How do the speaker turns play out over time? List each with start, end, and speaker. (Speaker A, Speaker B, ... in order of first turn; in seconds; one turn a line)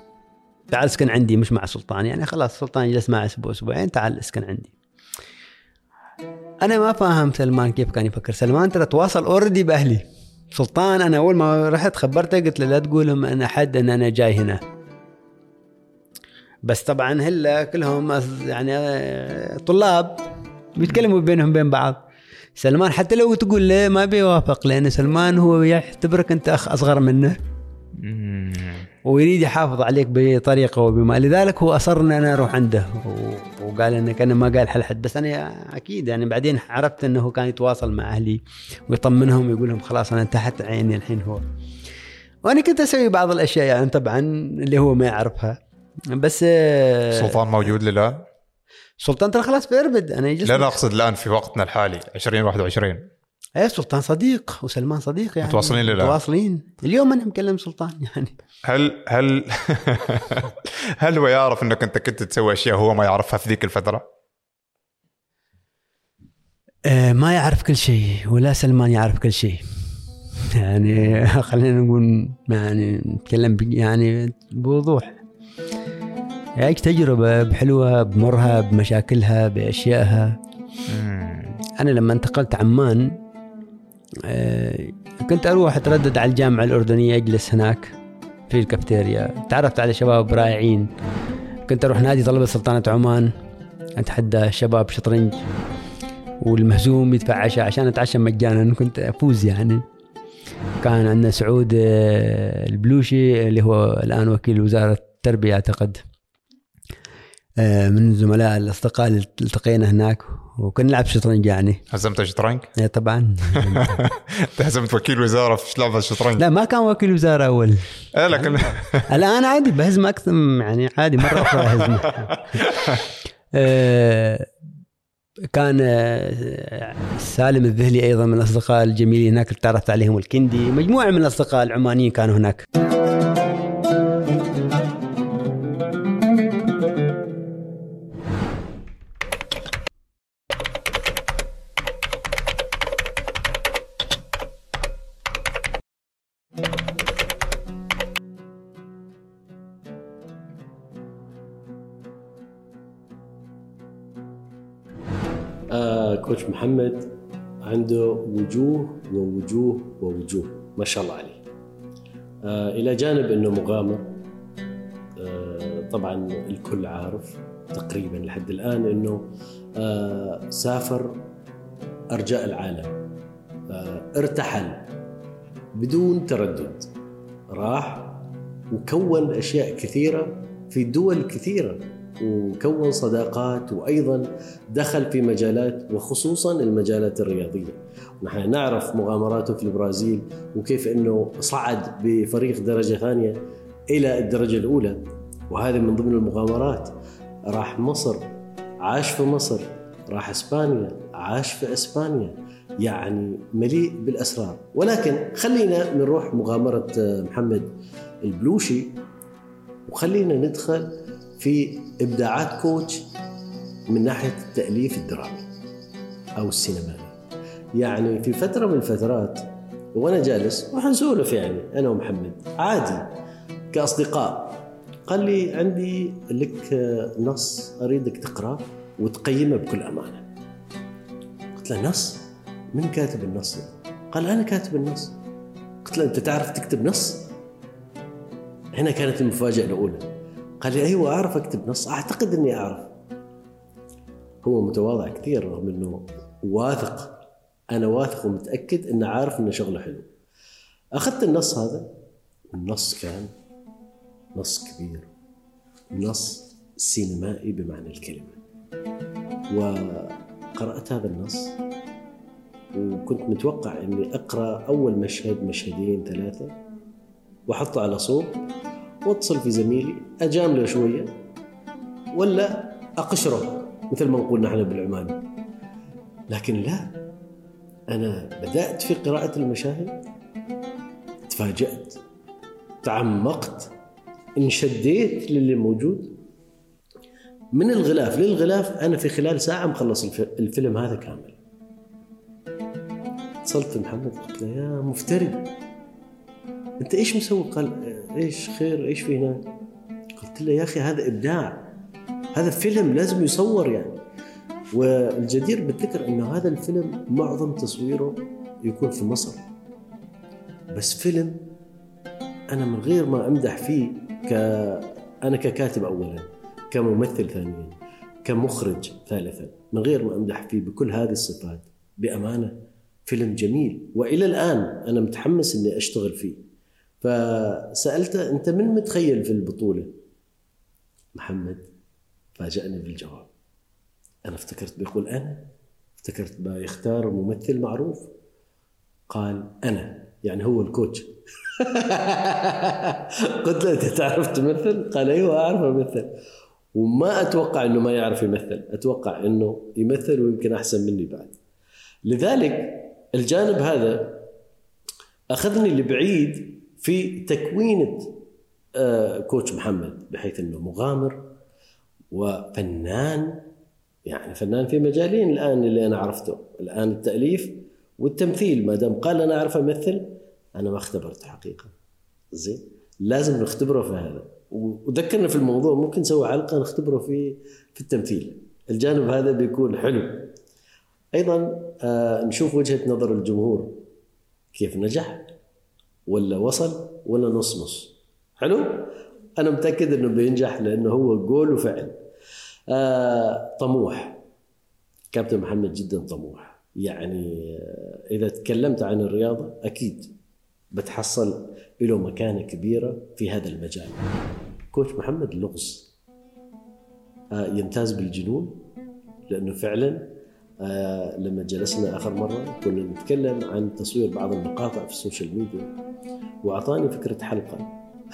Speaker A: 0.7-4.7
Speaker A: 6.6-14.6
Speaker A: 16.7-20.2
Speaker A: 20.8-22.0
Speaker A: 22.6-27.4
Speaker B: 28.0-28.9
Speaker A: 29.1-41.5
Speaker A: 42.5-45.6
Speaker A: 46.1-47.4
Speaker B: 47.1-48.2
Speaker A: 49.0-50.8
Speaker B: 50.5-53.1
Speaker A: 53.6-58.3
Speaker B: 55.4-56.2
Speaker B: 58.6-64.0
Speaker A: 66.8-69.6
Speaker A: 70.5-75.2
Speaker A: 76.6-80.4
Speaker B: 80.9-81.5
Speaker A: 81.8-83.2
Speaker A: 84.2-87.9
Speaker A: 88.5-90.9
Speaker A: 91.7-93.3
Speaker A: 94.0-95.4
Speaker A: 96.4-99.8
Speaker A: 100.8-106.0
Speaker A: 107.6-111.8
Speaker B: 111.9-112.7
Speaker A: 112.8-114.0
Speaker B: 113.5-116.4
Speaker A: 116.4-117.8
Speaker B: 118.1-119.1
Speaker A: 118.3-122.6
Speaker B: 121.3-123.0
Speaker A: 123.5-124.5
Speaker A: 125.5-132.7
Speaker C: 155.7-157.1
Speaker C: 157.7-161.4
Speaker C: 162.4-164.2
Speaker C: 165.2-171.2
Speaker C: 172.1-173.0
Speaker C: 173.7-174.9
Speaker C: 175.8-176.9
Speaker C: 177.5-196.9
Speaker C: 197.5-209.0
Speaker C: 209.9-213.1
Speaker C: 213.9-215.5
Speaker C: 216.4-217.1
Speaker C: 217.8-223.1
Speaker C: 223.7-230.2
Speaker C: 231.6-235.2
Speaker C: 235.8-237.3
Speaker C: 238.8-242.9
Speaker C: 244.4-250.1
Speaker C: 250.9-251.9
Speaker C: 252.5-253.3
Speaker C: 254.3-255.1
Speaker C: 255.9-258.4
Speaker C: 259.5-261.6
Speaker C: 262.7-266.5
Speaker C: 267.5-268.4
Speaker C: 269.0-271.2
Speaker C: 272.1-275.2
Speaker C: 276.3-277.0
Speaker C: 277.9-280.0
Speaker C: 281.3-282.0
Speaker C: 282.8-283.7
Speaker C: 284.4-286.2
Speaker C: 287.5-291.4
Speaker C: 293.4-295.5
Speaker C: 296.8-299.5
Speaker C: 300.2-301.7
Speaker C: 302.3-304.0
Speaker C: 304.7-309.4
Speaker C: 310.7-311.5
Speaker C: 312.5-326.4
Speaker C: 327.0-329.9
Speaker C: 331.1-331.7
Speaker C: 332.4-333.3
Speaker C: 334.2-335.5
Speaker C: 336.0-338.1
Speaker C: 339.1-346.1
Speaker C: 346.8-351.4
Speaker C: 352.1-354.3
Speaker C: 355.3-358.2
Speaker C: 358.8-361.3
Speaker C: 362.1-363.5
Speaker C: 364.1-371.7
Speaker C: 372.3-380.3
Speaker C: 381.1-383.8
Speaker C: 384.5-385.3
Speaker C: 386.1-392.0
Speaker C: 392.7-394.2
Speaker C: 395.1-400.1
Speaker C: 400.7-404.0
Speaker C: 404.7-405.9
Speaker C: 407.3-408.7
Speaker C: 409.3-415.7
Speaker C: 416.4-417.7